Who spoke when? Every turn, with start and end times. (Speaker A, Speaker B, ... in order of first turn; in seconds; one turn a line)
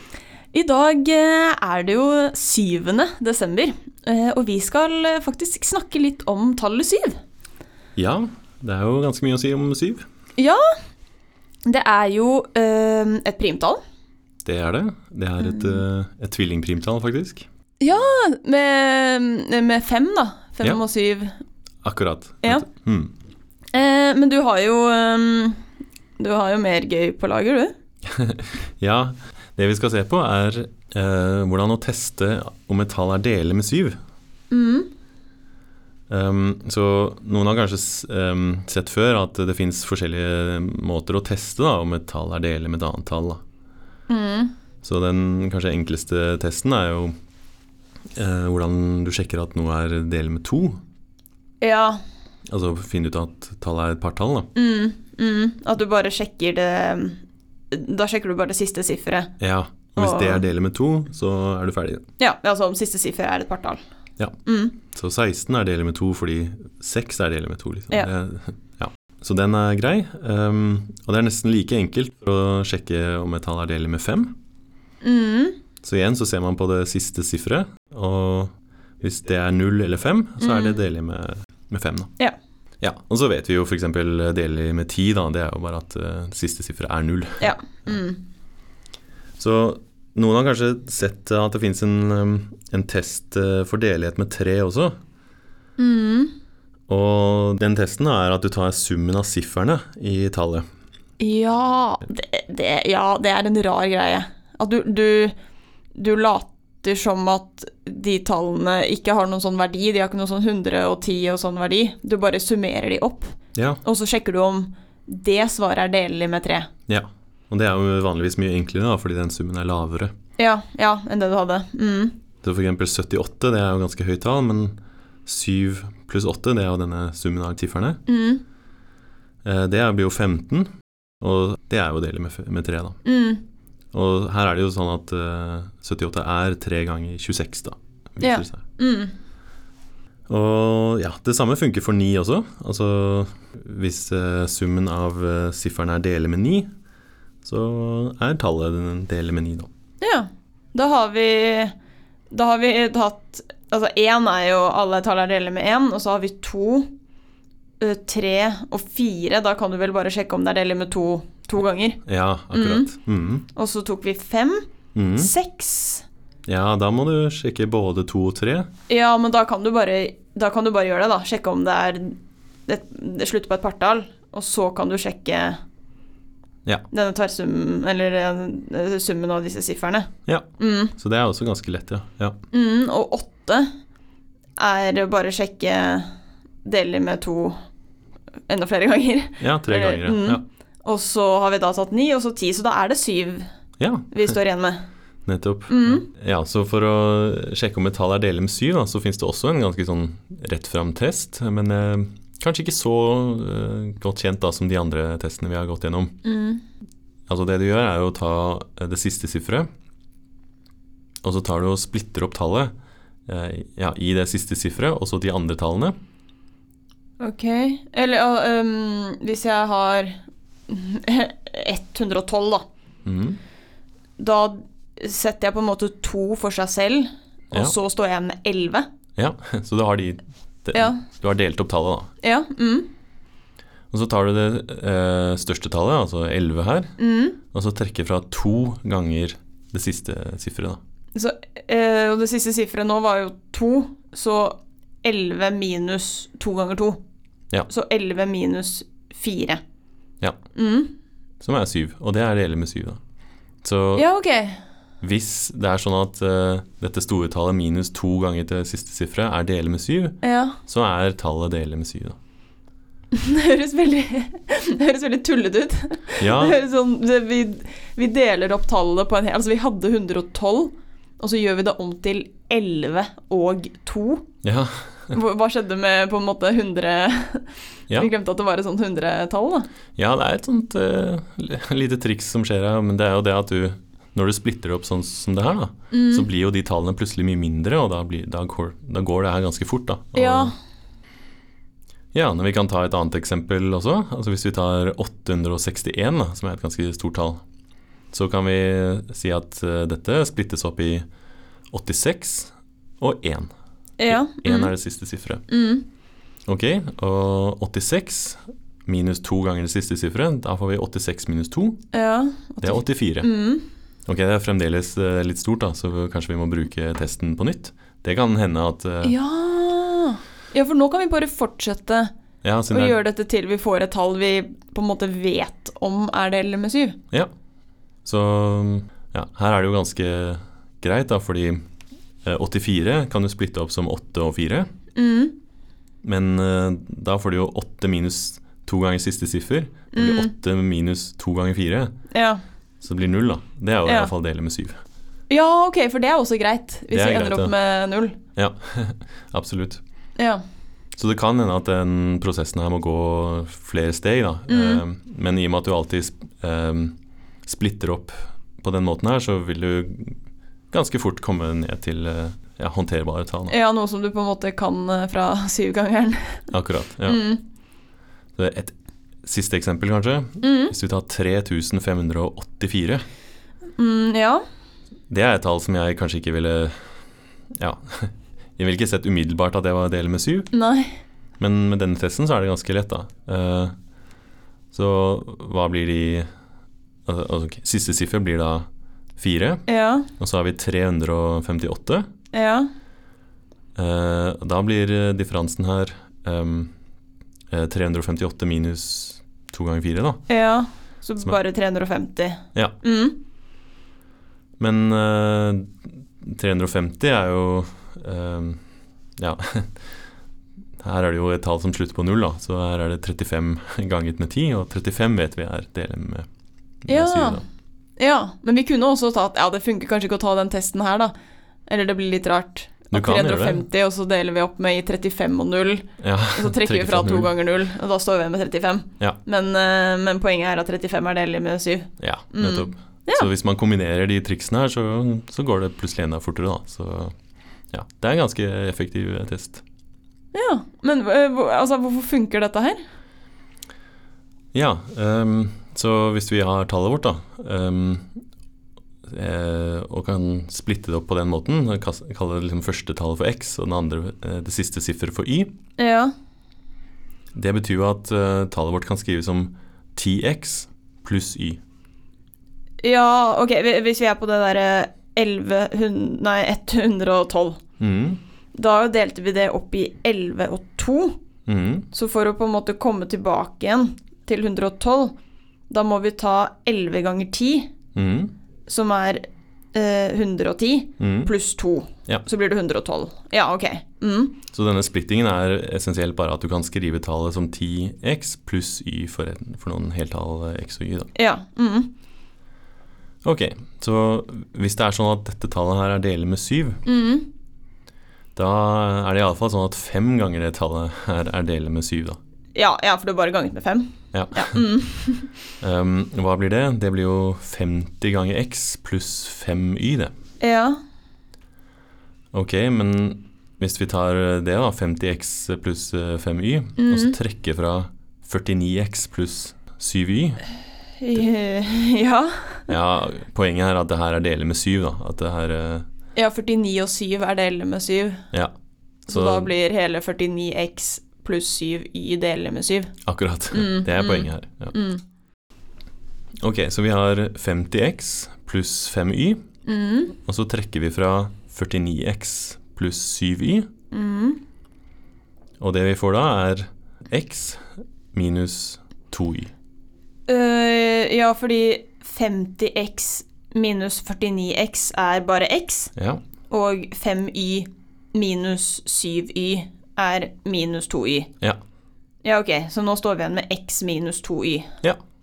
Speaker A: 0.5-7.2
Speaker B: 8.0-10.0
Speaker A: 10.4-10.6
Speaker A: 11.7-13.8
Speaker B: 14.4-17.4
Speaker A: 15.4-15.8
Speaker A: 17.8-21.3
Speaker B: 21.8-23.1
Speaker A: 23.7-25.6
Speaker A: 26.2-27.7
Speaker B: 28.1-34.0
Speaker A: 34.5-34.9
Speaker B: 36.1-43.4
Speaker A: 44.1-44.5
Speaker B: 44.8-47.1
Speaker B: 48.1-50.8
Speaker A: 51.6-52.0
Speaker B: 52.5-54.5
Speaker A: 54.5-59.3
Speaker B: 59.4-62.0
Speaker A: 60.0-60.5
Speaker A: 62.2-63.8
Speaker A: 64.4-64.8
Speaker B: 64.9-74.3
Speaker A: 75.0-75.6
Speaker B: 75.8-82.1
Speaker A: 80.4-80.8
Speaker B: 82.8-88.0
Speaker A: 87.4-88.2
Speaker B: 89.4-95.0
Speaker A: 95.8-96.3
Speaker B: 96.9-100.7
Speaker A: 101.2-105.3
Speaker A: 105.9-116.7
Speaker B: 113.5-113.8
Speaker B: 116.9-120.1
Speaker A: 120.4-122.2
Speaker B: 122.4-128.0
Speaker A: 128.1-128.4
Speaker B: 129.4-130.7
Speaker B: 131.2-133.0
Speaker A: 133.0-133.4
Speaker B: 133.9-138.6
Speaker A: 138.2-139.1
Speaker B: 140.3-146.7
Speaker B: 147.4-149.7
Speaker A: 150.0-151.7
Speaker A: 152.3-156.9
Speaker A: 157.8-162.0
Speaker B: 162.1-163.5
Speaker A: 162.5-162.9
Speaker A: 163.5-164.6
Speaker B: 164.9-165.3
Speaker A: 165.2-166.0
Speaker B: 166.5-168.7
Speaker A: 168.9-175.6
Speaker A: 176.9-180.9
Speaker B: 181.0-182.4
Speaker A: 182.5-183.7
Speaker A: 184.6-186.1
Speaker A: 186.6-187.6
Speaker A: 188.5-193.5
Speaker B: 189.4-190.4
Speaker B: 193.8-194.3
Speaker A: 194.1-194.8
Speaker B: 195.2-206.2
Speaker A: 195.7-196.1
Speaker A: 206.2-206.6
Speaker B: 207.3-209.7
Speaker B: 211.2-212.7
Speaker B: 213.3-215.9
Speaker A: 217.2-222.6
Speaker B: 223.0-223.4
Speaker A: 224.2-228.8
Speaker B: 229.2-232.1
Speaker A: 230.7-231.0
Speaker A: 232.2-232.9
Speaker B: 233.9-236.9
Speaker A: 237.0-237.4
Speaker B: 237.5-240.8
Speaker A: 241.1-247.0
Speaker A: 247.7-249.6
Speaker A: 250.5-250.9
Speaker B: 251.4-253.0
Speaker B: 253.6-254.1
Speaker A: 253.9-254.6
Speaker B: 255.0-262.2
Speaker A: 260.2-260.6
Speaker A: 263.1-274.2
Speaker B: 266.2-266.6
Speaker B: 274.4-275.2
Speaker A: 275.1-279.7
Speaker B: 279.9-290.5
Speaker A: 285.9-286.3
Speaker A: 290.1-290.5
Speaker B: 292.1-297.4
Speaker B: 298.1-301.0
Speaker B: 301.7-303.5
Speaker A: 304.0-304.7
Speaker B: 304.1-305.4
Speaker A: 305.5-305.8
Speaker B: 306.5-311.8
Speaker A: 311.9-313.6
Speaker B: 312.6-313.3
Speaker B: 314.1-319.1
Speaker A: 319.0-322.1
Speaker B: 322.4-323.0
Speaker A: 322.7-327.0
Speaker B: 328.0-331.6
Speaker B: 332.2-334.7
Speaker A: 334.9-335.3
Speaker B: 336.0-341.9
Speaker A: 339.9-340.3
Speaker A: 342.1-342.4
Speaker B: 342.8-344.7
Speaker A: 343.8-344.1
Speaker A: 345.3-348.2
Speaker B: 346.9-347.5
Speaker B: 348.4-349.8
Speaker A: 350.2-350.4
Speaker B: 350.9-356.9
Speaker A: 354.5-354.8
Speaker B: 357.4-360.2
Speaker B: 360.7-363.5
Speaker A: 363.5-366.4
Speaker B: 366.5-367.2
Speaker A: 367.0-367.4
Speaker B: 368.4-373.0
Speaker A: 370.4-370.7
Speaker A: 373.8-374.4
Speaker B: 375.1-376.9
Speaker B: 377.6-380.5
Speaker A: 380.5-380.9
Speaker B: 381.4-383.7
Speaker B: 384.7-386.3
Speaker B: 387.1-388.6
Speaker B: 389.2-389.6
Speaker A: 389.7-390.1
Speaker B: 390.2-392.1
Speaker A: 392.3-392.7
Speaker B: 393.8-396.7
Speaker B: 397.5-400.2
Speaker A: 400.3-403.2
Speaker B: 404.6-408.6
Speaker B: 409.2-409.9
Speaker B: 410.8-416.3
Speaker B: 416.8-417.4
Speaker A: 416.9-417.4
Speaker A: 418.0-421.1
Speaker A: 421.7-433.3
Speaker B: 422.9-423.6
Speaker B: 426.0-427.3
Speaker B: 432.0-437.1
Speaker B: 437.7-439.6
Speaker A: 440.3-442.8
Speaker B: 444.5-448.2
Speaker B: 449.1-455.5
Speaker A: 455.8-456.1
Speaker B: 457.3-461.6
Speaker A: 462.8-467.6
Speaker B: 467.8-468.2
Speaker A: 468.5-471.1
Speaker B: 471.5-471.9
Speaker A: 471.9-475.1
Speaker A: 475.7-477.7
Speaker B: 477.9-478.3
Speaker A: 478.7-479.2
Speaker A: 479.7-484.4
Speaker B: 481.0-481.3
Speaker B: 484.5-491.1
Speaker A: 491.1-491.9
Speaker B: 493.2-496.8
Speaker A: 496.9-497.3
Speaker B: 498.4-502.2
Speaker A: 502.5-505.3
Speaker B: 504.1-504.6
Speaker B: 505.6-510.1
Speaker A: 510.4-510.8
Speaker B: 512.3-520.4
Speaker A: 516.8-517.1
Speaker A: 521.0-522.7
Speaker B: 522.7-525.9
Speaker A: 526.1-528.2
Speaker B: 529.0-529.5
Speaker A: 529.1-532.9
Speaker B: 533.0-534.7
Speaker A: 533.5-535.0
Speaker B: 536.4-539.4
Speaker A: 539.6-540.1
Speaker B: 540.2-543.7
Speaker A: 543.9-544.4
Speaker B: 545.6-549.5
Speaker A: 550.3-555.9
Speaker B: 556.0-556.2
Speaker A: 556.5-561.3
Speaker A: 562.2-564.7